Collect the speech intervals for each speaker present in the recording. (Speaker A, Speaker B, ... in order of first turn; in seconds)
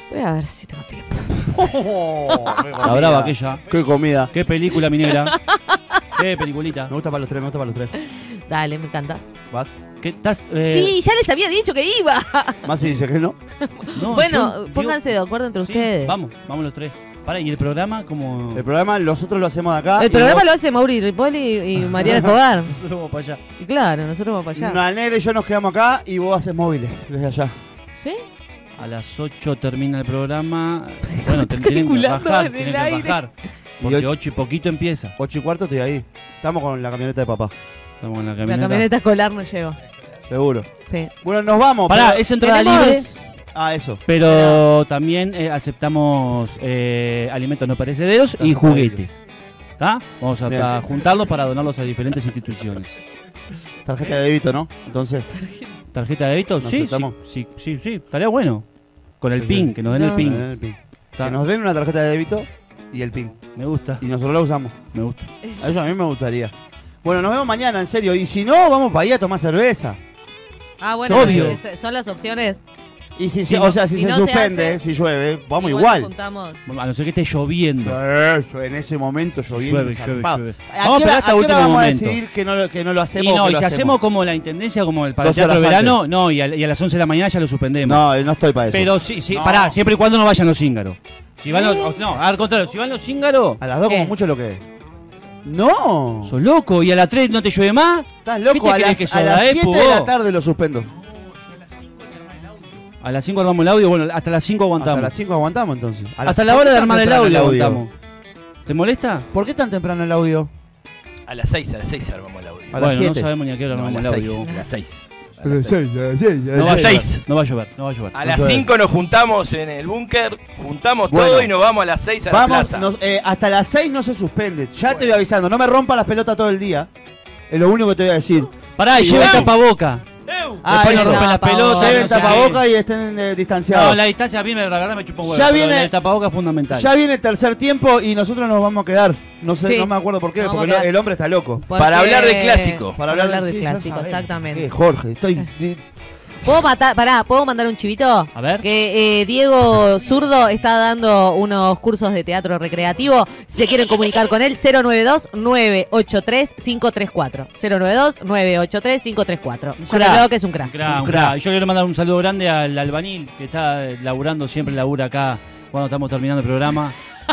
Speaker A: 0.1-1.7, 2.3-2.9, 5.0-6.0, 8.0-9.2, 10.7-12.7, 13.6-16.1, 20.0-22.7, 23.6-24.8, 31.1-33.2, 38.5-39.8, 40.9-41.1, 42.4-43.3, 44.2-44.7, 55.3-55.7, 59.9-60.5, 65.4-65.8, 70.8-72.6, 73.7-74.8, 75.6-76.6, 91.5-92.0, 93.9-94.1, 114.4-114.7, 129.1-129.5, 130.7-132.5, 139.7-140.9, 141.7-144.7, 146.4-160.7
Speaker B: 1.5-4.3, 6.9-7.9, 12.7-13.4, 18.5-20.5, 22.0-22.3, 24.6-27.5, 33.8-34.1, 35.2-37.5, 40.3-40.7, 41.2-42.2, 43.5-44.0, 48.4-49.0, 50.5-50.7, 53.9-55.3, 56.6-57.1, 59.4-63.4, 64.0-64.8, 65.6-66.5, 67.0-70.0, 71.1-71.6, 73.2-76.1, 77.8-84.0, 85.2-86.0, 87.8-89.8, 93.6-94.6, 95.4-96.3, 98.2-100.9, 104.8-107.8, 109.3-110.5, 112.7-113.3, 115.4-117.1, 118.2-118.7, 121.1-121.5, 122.3-126.9, 127.5-129.5, 130.6-134.0, 135.2-135.9, 136.7-141.7, 143.0-145.8, 159.8-160.2, 160.9-161.3
Speaker C: 2.8-3.6, 4.3-5.3, 6.2-6.9, 10.0-10.9, 13.9-15.0, 15.6-18.7, 22.7-23.4, 28.8-35.1, 38.0-38.9, 41.9-43.1, 44.1-49.2, 49.8-53.0, 55.9-58.7, 59.2-60.5, 63.6-64.0, 64.9-65.3, 71.1-71.6, 76.7-78.0, 79.6-82.2, 83.2-88.0, 88.7-93.6, 96.2-100.1, 103.0-105.1, 106.2-107.9, 108.7-109.3, 112.8-114.5, 116.5-118.2, 128.8-130.0, 130.7-132.6, 133.7-136.9, 148.3-148.7, 160.6-167.0
Speaker D: 111.3-112.8, 113.7-115.8, 116.6-117.2, 118.1-122.9, 130.3-130.6, 141.7-143.0